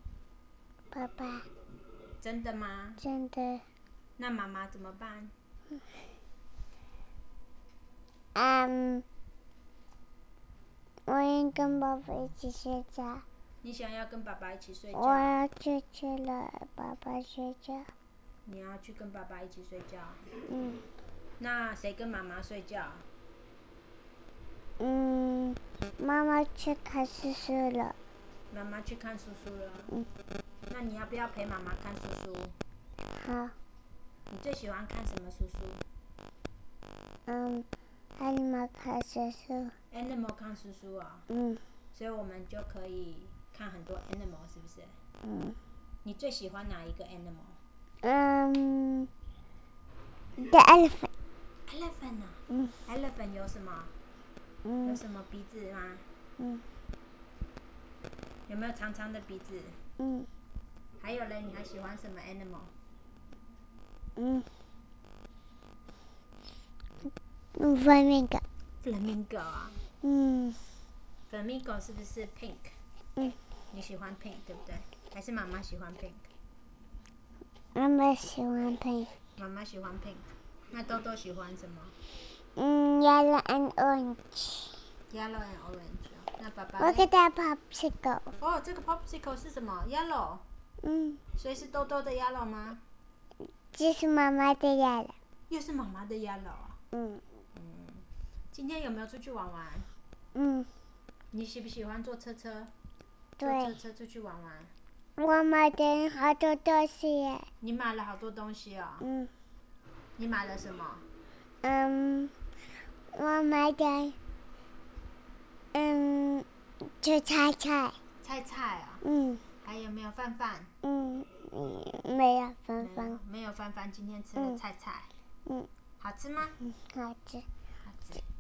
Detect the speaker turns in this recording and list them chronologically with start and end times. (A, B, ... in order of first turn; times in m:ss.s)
0:00.9-0:01.5 A
0:02.2-0:03.0 B
0:03.0-0:03.7 A
0:04.2-0:05.3 B
0:08.4-0:09.0 A
0:11.1-0:13.2 A
0:13.6-0:15.4 B
0:15.0-0:17.9 A
0:18.4-0:20.3 B
0:20.5-0:20.8 A
0:21.4-0:23.1 B
0:24.8-0:28.0 A
0:28.5-0:30.0 B
0:30.7-0:32.6 B
0:33.1-0:33.6 A
0:34.3-0:35.8 B
0:37.3-0:37.7 A
0:38.2-0:39.8 A
0:39.9-0:41.2 B
0:41.3-0:41.6 A
0:41.9-0:45.0 B
0:45.2-0:45.6 A
0:46.0-0:47.6 B
0:48.0-0:49.1 A
0:50.4-0:51.1 A
0:51.7-0:53.9 B
0:54.6-0:55.0 A
0:54.8-0:56.0 B
0:56.4-0:56.6 A
0:58.5-0:59.8 B
1:00.0-1:00.3 A
1:01.0-1:02.7 B
1:04.2-1:04.5 A
1:07.6-1:08.4 A
1:08.8-1:09.8 B
1:10.0-1:10.7 A
1:11.3-1:12.8 B
1:13.7-1:16.3 B
1:17.8-1:19.1 A
1:19.4-1:22.0 B
1:22.6-1:24.8 A
1:25.1-1:27.1 B
1:26.8-1:28.3 A
1:28.4-1:30.4 B
1:30.8-1:31.2 A
1:31.4-1:32.8 B
1:33.7-1:35.2 A
1:35.5-1:36.8 B
1:36.9-1:37.2 A
1:37.5-1:39.9 B
1:40.3-1:40.7 A
1:41.3-1:42.7 B
1:43.4-1:43.7 A
1:43.4-1:44.7 B
1:45.2-1:47.5 A
1:47.6-1:49.1 B
1:49.0-1:49.3 A
1:50.2-1:51.0 B
1:51.6-1:52.3 A
1:53.1-1:54.2 A
1:55.7-1:58.0 A
1:58.2-1:59.0 B
1:59.0-1:59.4 A
1:59.6-2:00.7 B
2:00.8-2:03.2 A
2:02.8-2:05.1 B
2:06.0-2:06.6 B
2:06.6-2:07.5 A
2:07.8-2:08.2 B